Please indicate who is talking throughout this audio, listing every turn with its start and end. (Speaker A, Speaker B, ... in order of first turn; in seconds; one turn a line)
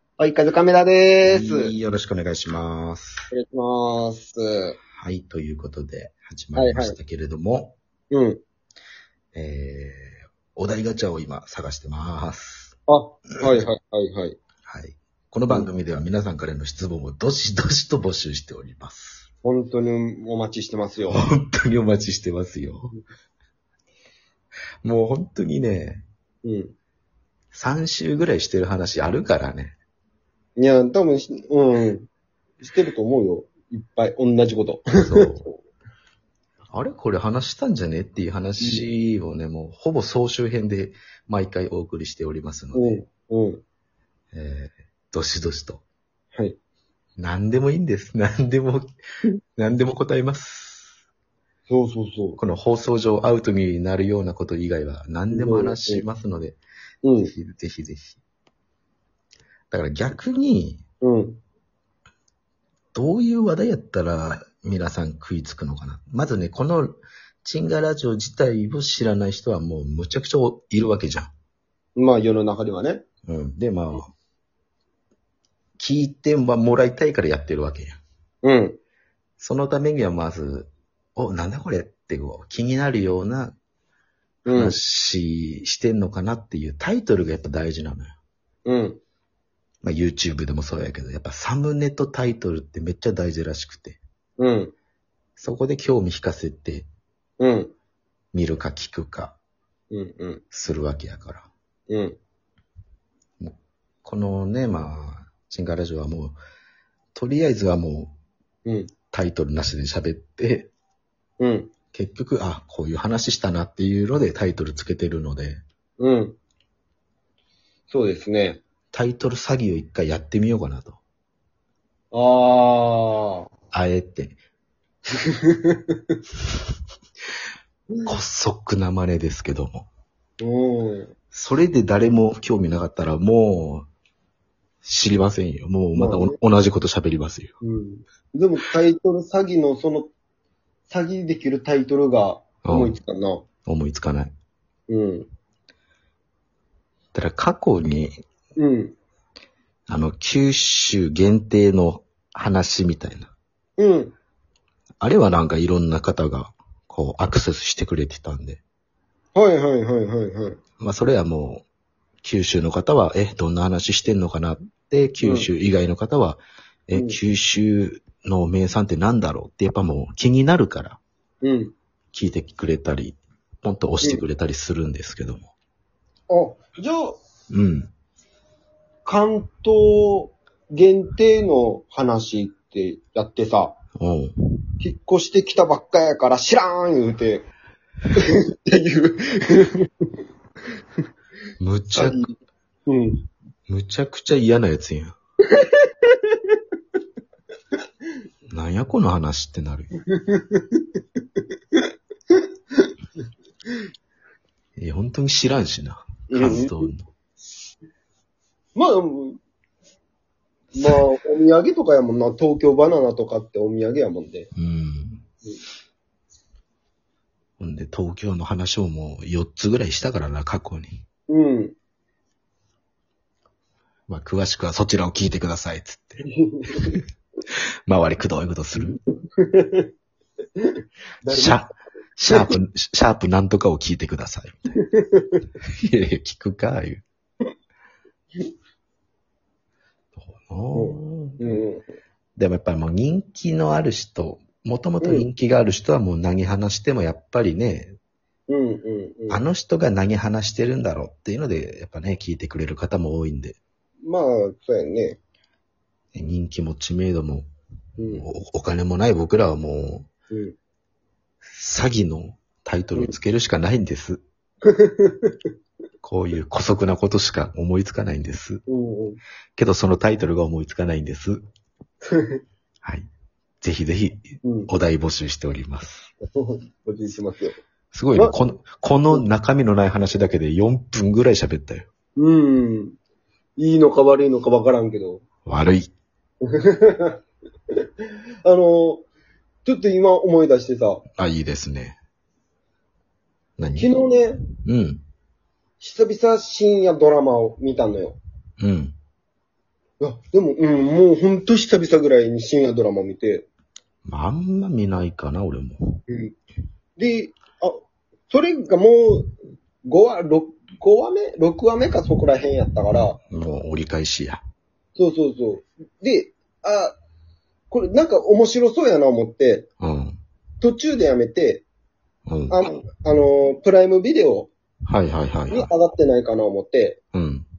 Speaker A: 0.2-1.7
Speaker B: 1.2-3.2
Speaker A: 3.3-4.8
Speaker B: 5.0-7.8
Speaker A: 6.5-7.0
Speaker A: 8.1-8.4
Speaker B: 9.3-12.8
Speaker A: 12.9-14.4
Speaker B: 14.7-19.3
Speaker A: 19.4-21.2
Speaker B: 21.1-22.9
Speaker B: 24.8-26.1
Speaker A: 26.4-26.7
Speaker B: 27.5-29.8
Speaker A: 30.6-32.1
Speaker A: 32.6-35.5
Speaker B: 35.0-35.5
Speaker B: 36.7-43.0
Speaker A: 38.6-38.9
Speaker A: 42.7-43.6
Speaker B: 44.3-45.8
Speaker B: 47.2-48.9
Speaker B: 49.6-50.9
Speaker A: 51.7-52.4
Speaker B: 52.4-56.6
Speaker A: 55.3-56.0
Speaker A: 57.0-57.3
Speaker B: 57.2-58.2
Speaker B: 59.7-60.8
Speaker A: 61.0-61.4
Speaker B: 62.9-71.3
Speaker A: 72.0-73.0
Speaker B: 73.3-74.1
Speaker B: 75.8-78.0
Speaker A: 78.4-78.8
Speaker B: 79.4-83.5
Speaker A: 84.5-84.8
Speaker B: 84.5-88.1
Speaker A: 88.7-89.0
Speaker B: 89.8-94.0
Speaker A: 94.4-94.7
Speaker B: 95.4-96.9
Speaker A: 97.4-97.7
Speaker B: 98.3-99.4
Speaker A: 99.9-100.4
Speaker B: 100.5-101.5
Speaker A: 101.9-102.2
Speaker B: 103.4-106.4
Speaker B: 107.2-108.1
Speaker A: 108.7-108.9
Speaker B: 109.1-110.7
Speaker A: 111.4-111.7
Speaker B: 111.9-115.6
Speaker A: 116.0-116.4
Speaker A: 117.9-118.6
Speaker B: 118.9-121.0
Speaker A: 122.1-123.5
Speaker B: 123.7-124.4
Speaker A: 125.2-126.2
Speaker B: 128.1-129.9
Speaker A: 130.4-131.1
Speaker B: 131.3-133.9
Speaker B: 134.8-137.5
Speaker A: 135.9-136.3
Speaker A: 137.6-140.1
Speaker A: 140.9-143.4
Speaker B: 142.6-143.0
Speaker B: 143.6-144.3
Speaker A: 144.9-145.3
Speaker B: 147.1-148.2
Speaker A: 148.6-148.9
Speaker B: 149.9-153.3
Speaker A: 153.8-154.1
Speaker B: 155.0-158.6
Speaker A: 159.3-160.6
Speaker B: 160.8-161.7
Speaker B: 162.2-171.0
Speaker A: 165.2-165.5
Speaker A: 171.4-171.7
Speaker B: 172.1-175.5
Speaker A: 176.3-177.2
Speaker B: 177.5-177.9
Speaker A: 179.1-183.8
Speaker B: 184.0-184.3
Speaker A: 184.8-187.5
Speaker A: 188.2-189.9
Speaker B: 191.6-192.2
Speaker A: 192.0-192.3
Speaker A: 192.9-193.2
Speaker B: 193.7-195.2
Speaker A: 195.6-196.4
Speaker B: 198.5-199.9
Speaker A: 200.1-200.9
Speaker A: 201.7-202.9
Speaker B: 204.8-207.1
Speaker A: 206.3-206.8
Speaker A: 208.8-209.4
Speaker A: 210.8-214.5
Speaker B: 214.6-215.2
Speaker B: 217.6-221.0
Speaker A: 221.3-221.8
Speaker B: 224.1-227.0
Speaker A: 226.3-226.9
Speaker B: 227.9-229.0
Speaker A: 228.8-229.9
Speaker A: 230.6-231.6
Speaker B: 231.3-234.8
Speaker A: 232.3-232.6
Speaker A: 234.8-235.4
Speaker B: 235.8-237.0
Speaker B: 240.2-241.6
Speaker A: 240.7-241.9
Speaker B: 242.4-248.0
Speaker A: 245.0-245.3
Speaker A: 248.5-249.4
Speaker B: 249.3-253.6
Speaker A: 254.0-255.2
Speaker B: 256.1-257.5
Speaker A: 258.0-258.3
Speaker B: 258.1-260.1
Speaker B: 261.5-264.2
Speaker A: 264.6-265.4
Speaker B: 266.0-268.6
Speaker A: 268.7-269.2
Speaker B: 269.6-271.4
Speaker A: 272.0-272.4
Speaker B: 273.6-276.1
Speaker A: 274.4-274.7
Speaker A: 276.2-277.6
Speaker B: 277.9-281.9
Speaker A: 282.2-283.0
Speaker A: 283.6-285.2
Speaker B: 285.5-285.9
Speaker A: 286.5-287.2
Speaker A: 288.4-289.1
Speaker A: 289.6-291.0
Speaker B: 291.2-292.0
Speaker B: 293.6-293.9
Speaker A: 293.8-294.4
Speaker B: 294.6-295.0
Speaker A: 295.8-298.2
Speaker B: 298.6-299.0
Speaker A: 300.0-303.4
Speaker B: 304.1-306.0
Speaker A: 306.1-306.4
Speaker A: 307.0-309.3
Speaker A: 309.9-313.2
Speaker B: 313.3-314.4
Speaker A: 315.0-316.9
Speaker A: 317.7-319.7
Speaker B: 319.8-320.2
Speaker A: 320.6-321.6
Speaker B: 322.3-322.6
Speaker A: 322.5-324.5
Speaker B: 324.9-325.7
Speaker A: 325.5-327.0
Speaker B: 327.1-327.5